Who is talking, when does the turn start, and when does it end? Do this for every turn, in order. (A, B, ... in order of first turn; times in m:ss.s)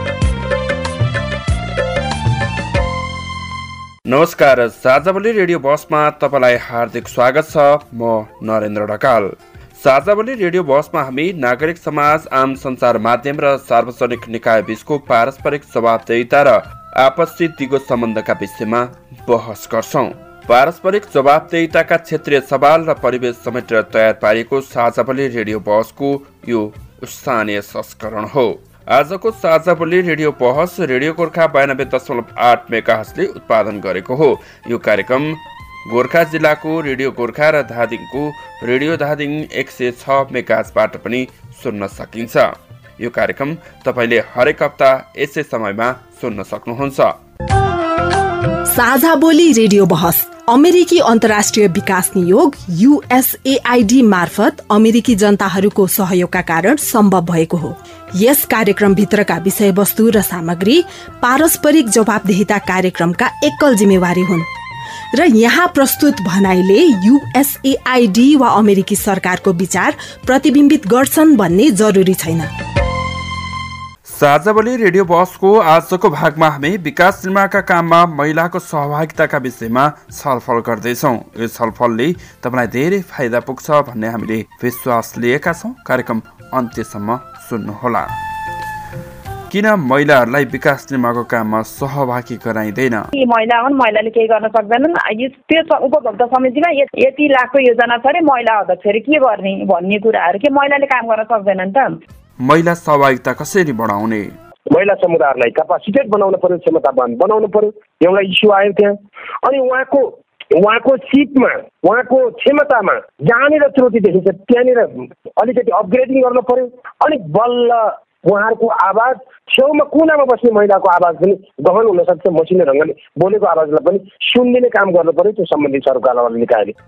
0:04.0-0:47.2 A
0:48.7-1:04.5 B
1:05.1-1:12.5 B
1:14.1-1:28.1 A
1:29.5-1:33.1 A
1:33.1-1:42.0 C
1:42.4-1:44.4 A
1:44.7-2:06.7 D